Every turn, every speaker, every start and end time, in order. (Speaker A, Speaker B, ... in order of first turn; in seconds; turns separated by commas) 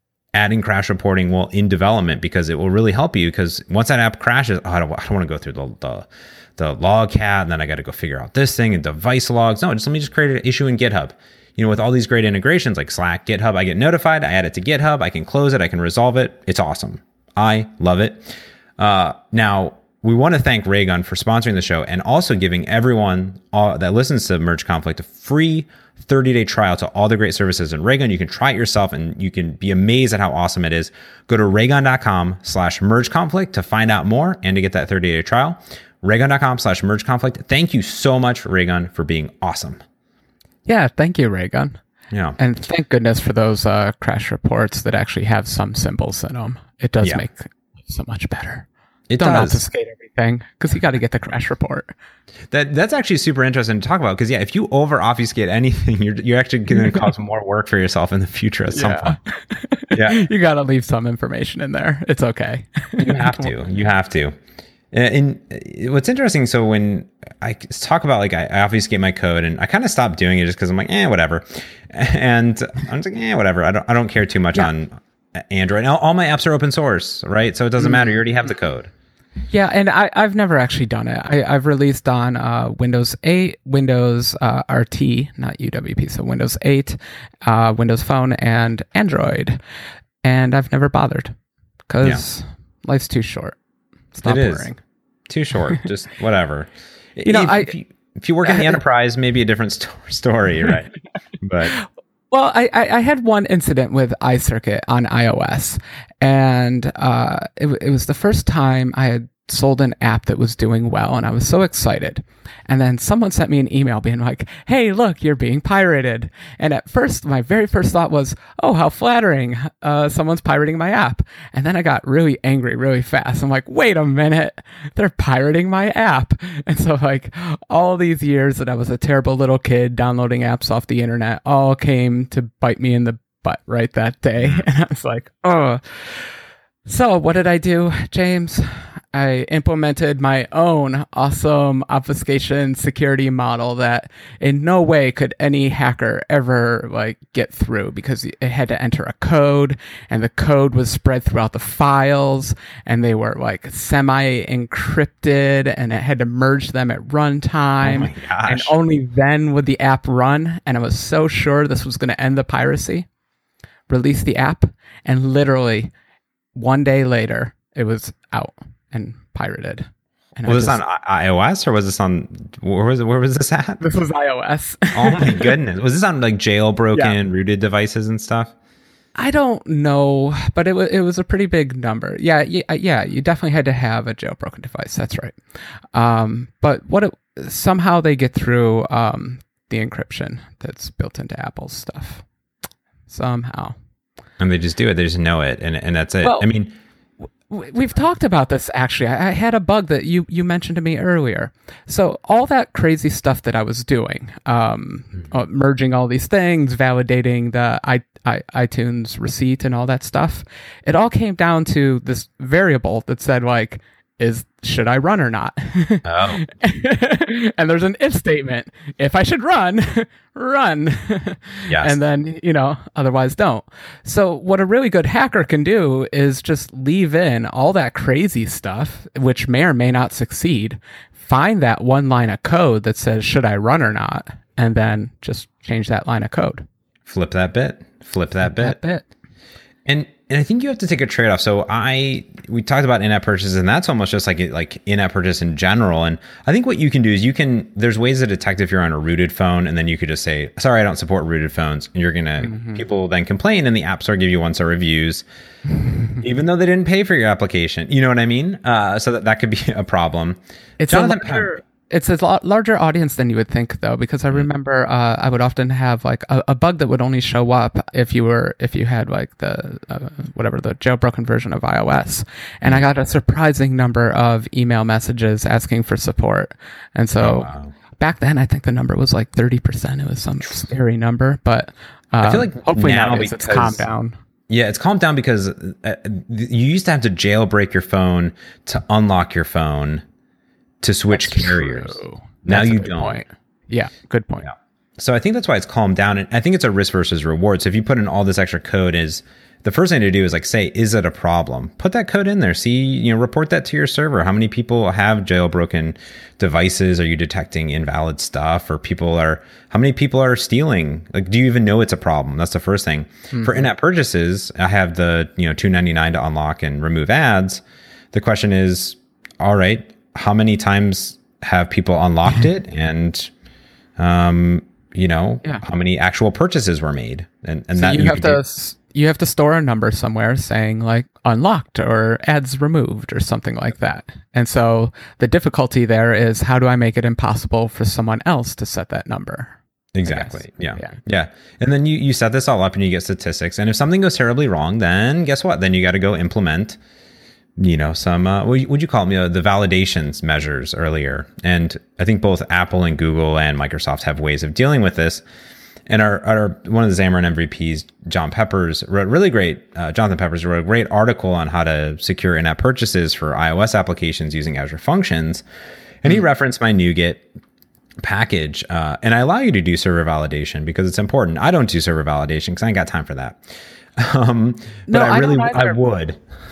Speaker A: 0.3-39.8, Speaker B: 40.6-41.8, Speaker A: 42.1-42.4, Speaker B: 42.4-48.7, Speaker A: 49.1-49.6, Speaker B: 49.2-51.9, Speaker A: 52.5-59.2, Speaker B: 58.7-63.5, Speaker A: 59.9-60.2, Speaker A: 63.0-64.3, Speaker A: 64.9-78.9, Speaker B: 77.8-78.1, Speaker B: 79.5-89.6, Speaker B: 90.2-91.3, Speaker B: 91.9-93.5, Speaker B: 94.1-94.8, Speaker A: 94.2-94.7, Speaker A: 95.3-101.8, Speaker B: 97.2-97.7, Speaker B: 98.5-98.8, Speaker B: 101.7-136.2, Speaker A: 134.4-134.6, Speaker B: 136.8-163.1, Speaker A: 157.8-158.7, Speaker B: 163.9-165.9, Speaker B: 166.5-170.8, Speaker A: 170.4-173.8, Speaker B: 173.8-175.6, Speaker A: 174.9-178.5, Speaker B: 179.2-185.3, Speaker B: 185.9-192.2, Speaker B: 193.1-193.8, Speaker A: 194.4-196.7, Speaker B: 197.5-236.7, Speaker A: 216.0-216.4, Speaker A: 237.1-238.8, Speaker B: 238.4-239.0, Speaker A: 239.8-255.2, Speaker B: 252.4-252.8, Speaker A: 256.2-260.4, Speaker B: 260.8-284.1, Speaker A: 260.9-261.5, Speaker A: 277.2-277.7, Speaker A: 282.2-283.8, Speaker A: 284.5-290.0, Speaker A: 290.8-293.2, Speaker B: 291.1-294.5, Speaker A: 294.5-323.3, Speaker B: 313.3-313.7, Speaker A: 324.0-328.4, Speaker B: 327.8-341.0, Speaker A: 339.9-346.8, Speaker A: 347.6-355.2, Speaker A: 355.9-365.4, Speaker A: 366.0-367.2, Speaker A: 368.0-373.4, Speaker A: 373.9-376.2, Speaker B: 374.9-375.8